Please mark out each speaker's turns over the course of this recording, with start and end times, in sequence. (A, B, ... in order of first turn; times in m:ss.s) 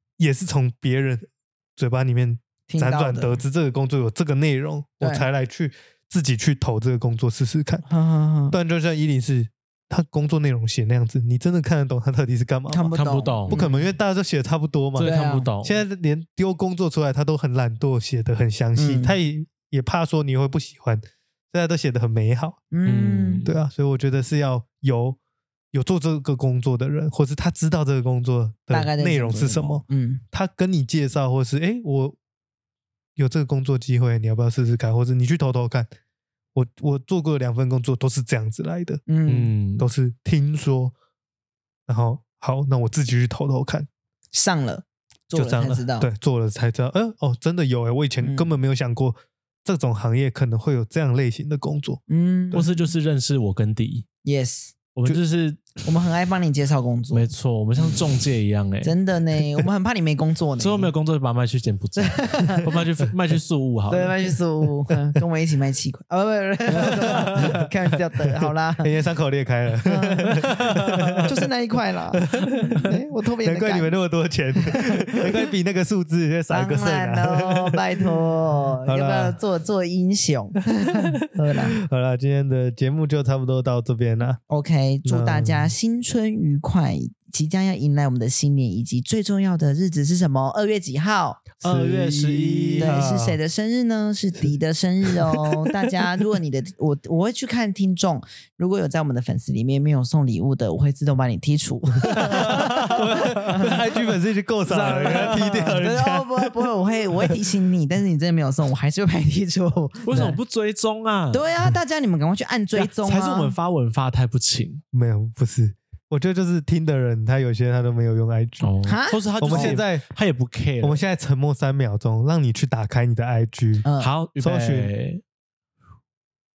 0:00.2-0:07.8 A
0:02.7-0:03.4 B
0:05.0-0:05.2 B
0:07.8-0:08.6 B
0:08.5-0:12.9 A
0:12.7-0:13.9 B
0:12.9-0:13.6 C
0:13.5-0:22.6 A
0:15.0-0:15.8 C
0:15.0-0:15.5 B
0:18.8-0:19.2 B
0:22.7-0:23.4 B
0:22.8-0:23.5 C
0:23.4-0:25.2 A
0:25.7-0:32.2 A
0:28.7-0:30.2 B
0:33.2-0:35.9 A
0:36.5-0:39.0 A
0:39.1-0:39.5 B
0:39.3-0:39.9 C
0:39.8-0:40.9 A
0:41.9-0:43.9 A
0:44.3-0:46.1 B
0:45.3-0:52.0 A
0:48.2-0:48.5 B
0:52.1-0:52.6 B
0:52.5-0:54.0 C
0:54.2-0:54.7 B
0:54.9-0:55.8 C
0:55.8-0:58.0 B
0:57.1-0:58.9 C
0:58.8-1:00.9 B
1:00.6-1:04.2 C
1:02.0-1:02.7 B
1:03.9-1:08.9 B
1:06.8-1:07.6 C
1:07.2-1:07.6 A
1:08.4-1:11.4 A
1:09.8-1:10.5 B
1:10.6-1:11.3 C
1:11.2-1:14.0 B
1:12.2-1:18.1 A
1:14.6-1:15.2 B
1:16.5-1:21.8 B
1:18.8-1:19.4 A
1:21.7-1:24.4 A
1:24.5-1:31.5 B
1:25.0-1:25.7 A
1:31.6-1:33.0 C
1:31.6-1:33.4 A
1:32.8-1:43.8 B
1:42.0-1:46.7 A
1:42.1-1:43.8 C
1:44.7-1:45.8 C
1:44.9-1:50.4 B
1:50.0-1:51.5 C
1:51.3-1:53.5 B
1:52.7-1:54.8 C
1:54.9-1:58.7 A
1:58.6-2:01.0 C
1:58.8-1:59.8 B
1:59.4-2:00.0 A
2:00.8-2:03.8 A
2:03.8-2:04.1 B
2:04.0-2:05.2 C
2:04.4-2:04.9 A